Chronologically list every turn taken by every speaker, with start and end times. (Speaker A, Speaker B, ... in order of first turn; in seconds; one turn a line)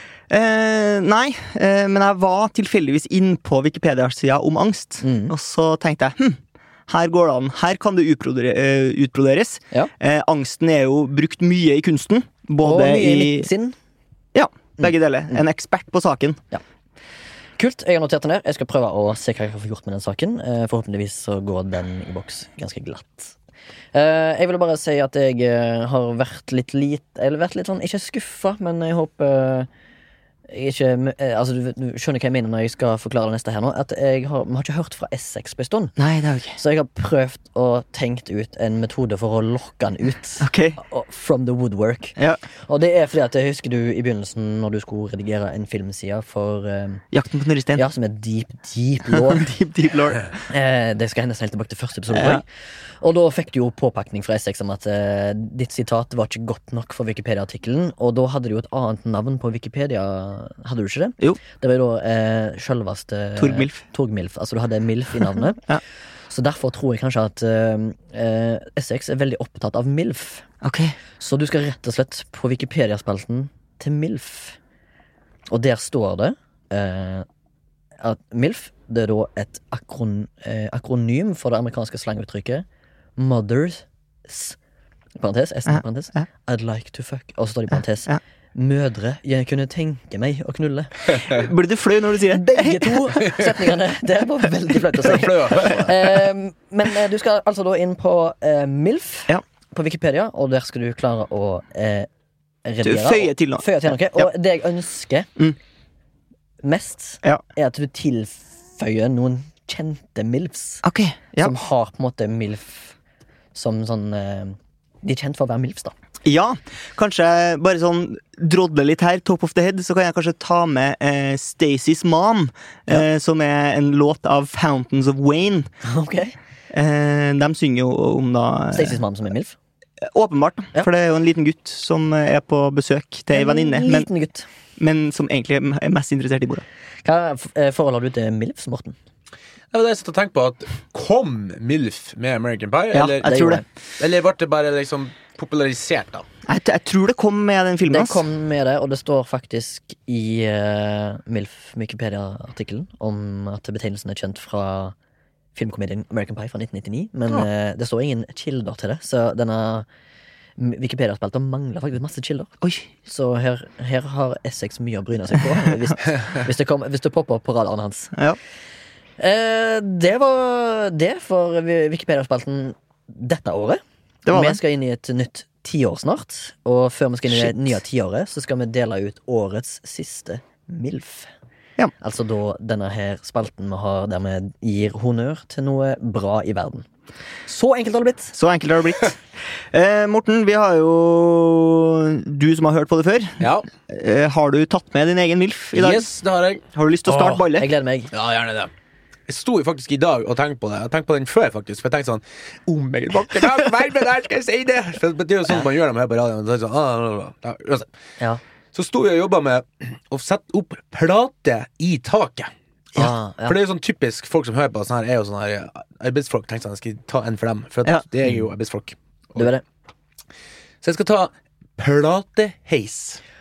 Speaker A: 0.3-13.5
Speaker B: 5.0-5.3
Speaker B: 12.6-13.8
Speaker A: 14.3-16.4
Speaker B: 14.8-15.4
Speaker B: 17.6-23.4
Speaker B: 23.9-29.7
Speaker B: 30.5-35.9
Speaker A: 36.0-36.6
Speaker B: 36.5-47.0
Speaker A: 40.4-40.8
Speaker A: 47.1-47.8
Speaker B: 47.8-49.5
Speaker A: 49.1-50.3
Speaker B: 50.5-52.4
Speaker A: 52.1-52.4
Speaker B: 53.0-65.6
Speaker A: 63.4-63.8
Speaker B: 66.3-70.5
Speaker A: 70.6-71.0
Speaker B: 71.2-74.6
Speaker B: 75.5-77.2
Speaker B: 78.0-82.6
Speaker B: 83.2-84.6
Speaker B: 85.2-91.4
Speaker A: 85.7-86.2
Speaker A: 91.2-93.1
Speaker B: 92.3-102.1
Speaker C: 95.0-95.9
Speaker B: 102.6-105.3
Speaker A: 102.8-104.3
Speaker B: 106.6-110.8
Speaker A: 110.8-111.5
Speaker B: 111.4-112.9
Speaker B: 113.5-115.9
Speaker A: 116.2-125.7
Speaker B: 125.8-126.3
Speaker A: 126.7-129.0
Speaker B: 128.7-129.6
Speaker A: 130.1-134.1
Speaker B: 133.3-134.4
Speaker A: 134.8-136.6
Speaker B: 137.0-138.9
Speaker C: 139.7-143.3
Speaker A: 142.9-143.6
Speaker B: 143.2-143.6
Speaker C: 144.0-146.3
Speaker A: 146.5-148.2
Speaker B: 147.9-154.9
Speaker B: 155.5-159.8
Speaker B: 160.6-162.5
Speaker A: 162.6-162.9
Speaker B: 163.0-168.1
Speaker B: 169.2-181.3
Speaker A: 174.3-174.6
Speaker A: 177.3-177.6
Speaker B: 182.0-186.8
Speaker B: 187.5-188.3
Speaker A: 188.3-189.2
Speaker A: 189.7-196.1
Speaker C: 193.4-193.7
Speaker C: 195.7-197.4
Speaker A: 196.7-197.7
Speaker B: 197.5-198.1
Speaker C: 198.1-198.7
Speaker C: 199.3-207.9
Speaker C: 208.7-212.5
Speaker B: 212.9-213.6
Speaker C: 213.5-219.4
Speaker B: 219.3-219.6
Speaker C: 220.8-223.2